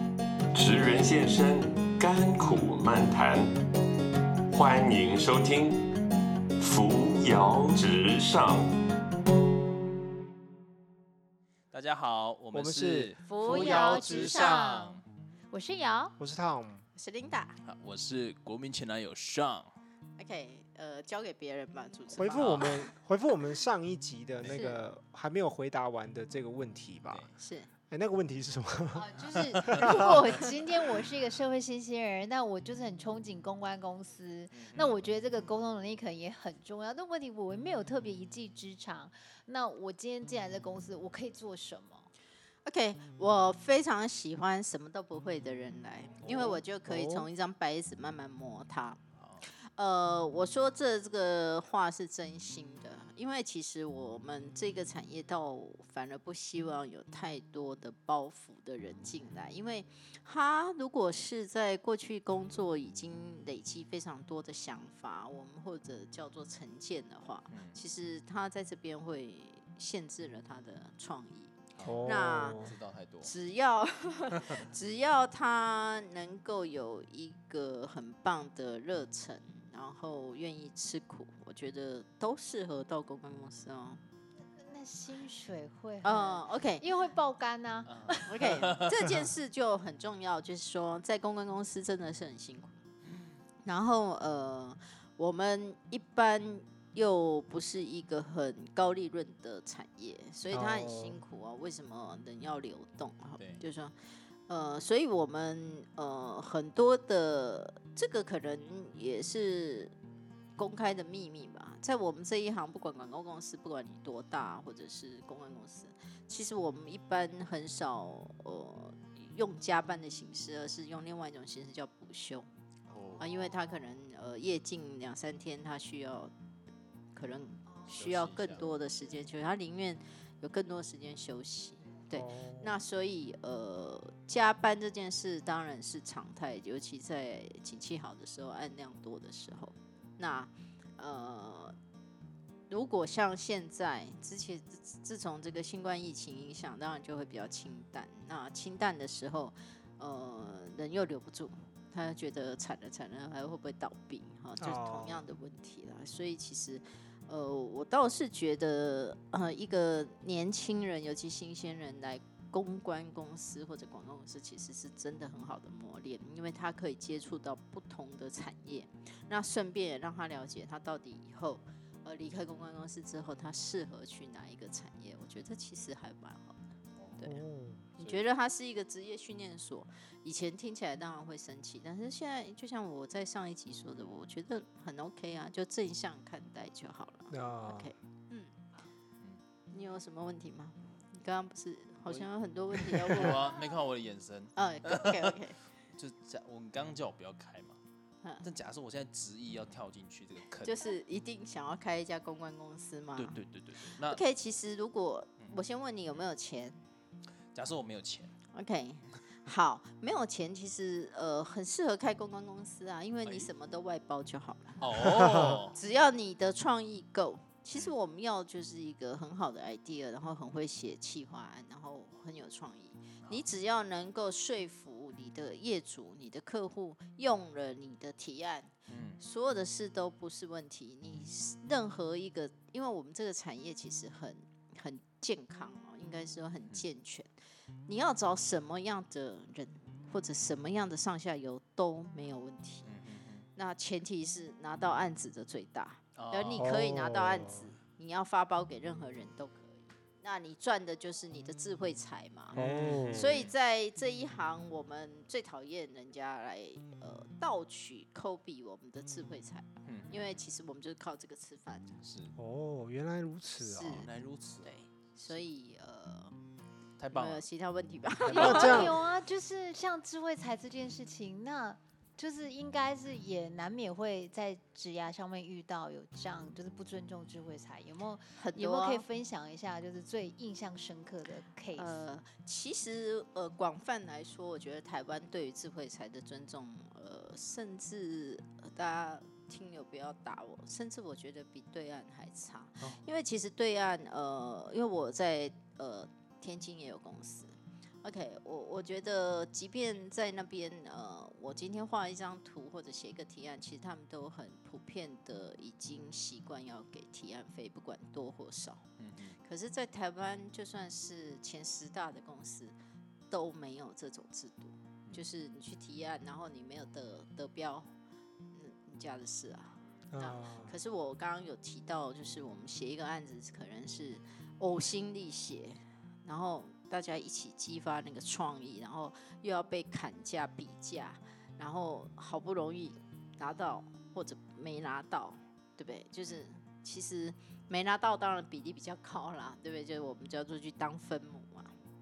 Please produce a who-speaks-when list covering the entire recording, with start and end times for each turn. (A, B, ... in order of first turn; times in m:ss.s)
0:00.5-0:03.5 A
0:04.5-0:05.8 A
0:06.6-0:08.7 A
0:11.7-0:15.0 B
0:12.5-0:14.6 C
0:13.2-0:15.0 D
0:15.5-0:16.2 D
0:16.2-0:16.8 C
0:17.0-0:17.6 E
0:17.6-0:19.7 B
0:20.2-0:22.8 E
0:22.1-0:27.2 C
0:22.3-0:22.8 B
0:24.4-0:24.7 B
0:24.4-0:24.8 E
0:27.1-0:27.3 B
0:27.4-0:27.7 E
0:27.9-0:30.4 C
0:28.9-0:42.1 D
0:29.6-0:29.9 B
0:34.5-0:35.0 B
0:42.6-0:49.0 E
0:46.2-0:47.3 C
0:49.2-0:49.4 B
0:49.8-1:12.6 E
1:07.5-1:07.8 B
1:11.8-1:13.3 B
1:11.8-1:12.7 C
1:13.2-1:24.0 E
1:24.5-1:28.3 D
1:26.0-1:26.8 E
1:27.9-1:29.3 B
1:28.3-1:32.8 E
1:33.6-1:44.0 E
1:40.5-1:41.2 C
1:44.5-1:49.9 E
1:50.6-2:02.5 E
2:02.9-2:03.2 B
2:03.2-2:06.3 E
2:07.1-2:21.8 E
2:07.9-2:08.6 B
2:12.1-2:12.8 C
2:22.7-2:57.4 E
2:34.6-2:35.2 C
2:57.0-2:57.3 B
2:57.2-2:58.2 C
2:58.0-3:08.6 E
3:07.3-3:07.9 C
3:09.7-3:13.5 E
3:12.1-3:15.4 B
3:14.6-3:15.6 E
3:15.9-3:17.8 B
3:18.4-3:20.9 B
3:20.6-3:26.8 E
3:23.2-3:24.2 B
3:27.5-3:28.3 B
3:28.5-3:34.8 E
3:34.8-3:35.8 B
3:35.0-3:35.6 C
3:35.7-3:57.3 E
3:48.9-3:49.2 B
3:57.9-4:02.9 E
4:02.8-4:03.5 B
4:03.6-4:12.6 E
4:06.2-4:06.7 B
4:06.6-4:07.7 C
4:12.5-4:13.5 B
4:12.6-4:13.3 C
4:13.1-4:22.0 E
4:19.8-4:20.2 B
4:22.0-4:22.3 B
4:22.4-4:24.1 C
4:23.6-4:24.1 E
4:23.8-4:24.7 B
4:24.6-4:26.4 E
4:27.0-4:27.4 B
4:27.1-4:28.9 E
4:28.2-4:28.9 B
4:28.4-4:29.0 C
4:28.4-4:42.0 D
4:38.4-4:39.0 E
4:41.8-5:08.9 E
5:09.0-5:09.4 B
5:09.4-5:12.8 E
5:13.3-5:17.9 E
5:18.5-5:41.8 E
5:20.1-5:20.7 C